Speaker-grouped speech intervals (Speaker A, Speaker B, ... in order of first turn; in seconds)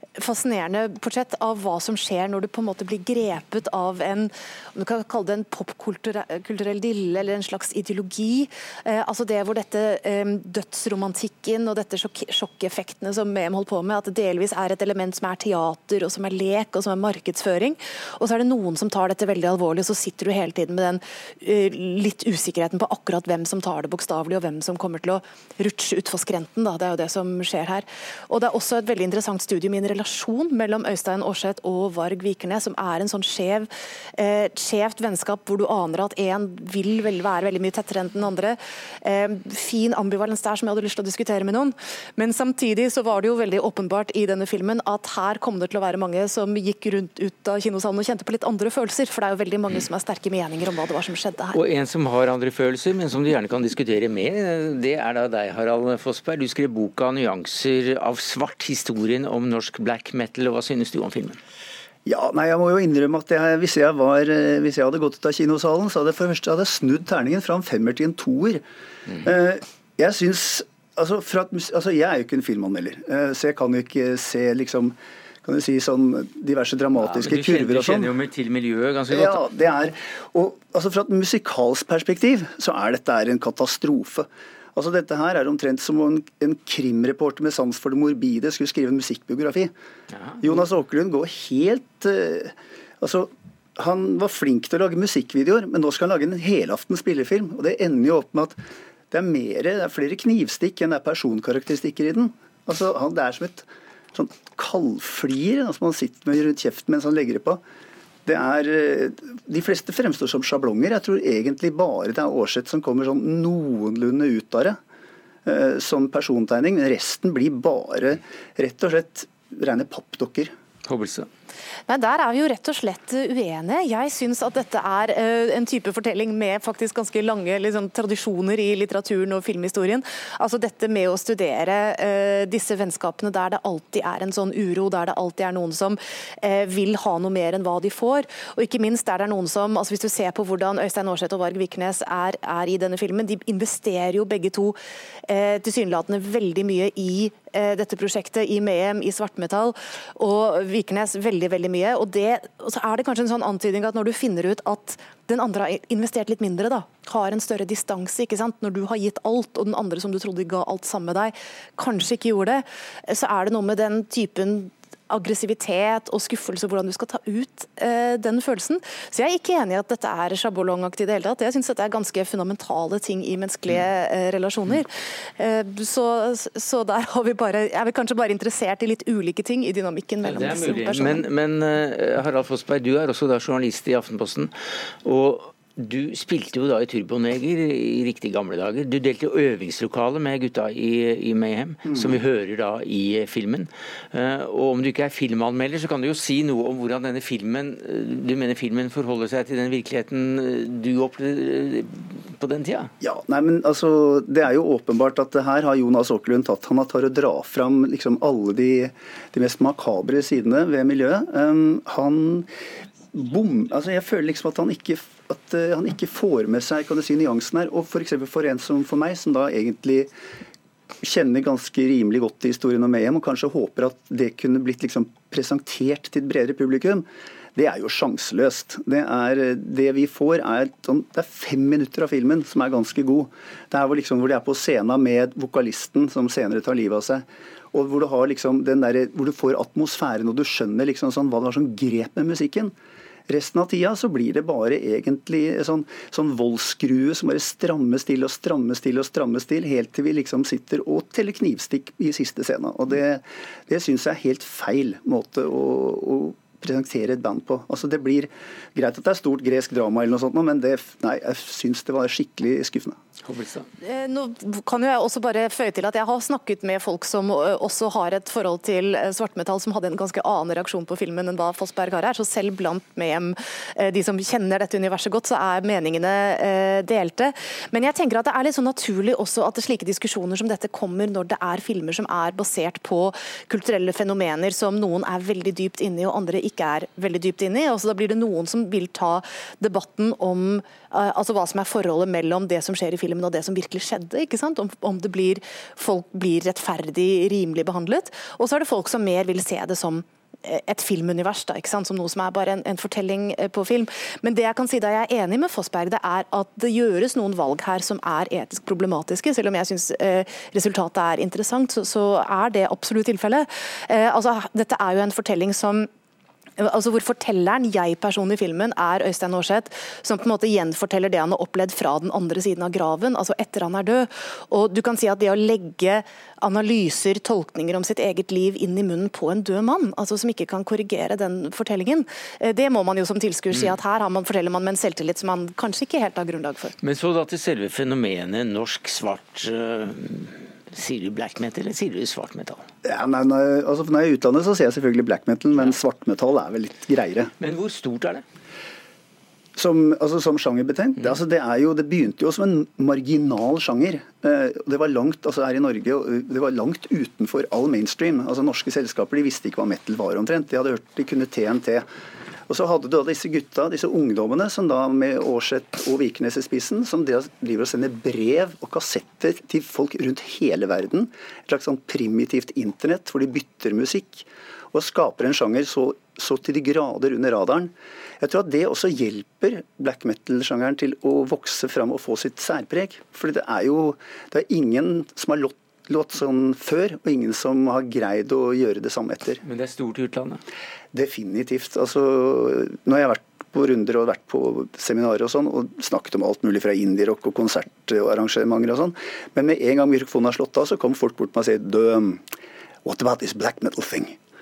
Speaker A: 0.2-51.6, 121.9-181.3, 263.8-315.9, 316.6-336.8
Speaker B: 51.5-61.4, 77.0-79.5, 120.8-121.3, 180.2-184.5, 185.0-202.9, 263.2-263.7, 333.5-333.8, 336.8-342.6, 347.4-348.2, 389.4-390.4
Speaker C: 62.0-68.6, 69.2-78.1, 79.1-89.7, 90.4-98.6, 99.1-107.6, 108.3-114.8, 115.5-120.5, 191.8-192.2, 203.0-212.5, 213.1-220.1, 221.0-242.8, 243.3-263.0, 342.8-347.3, 349.6-361.9, 362.5-389.4, 390.9-402.2, 402.8-404.2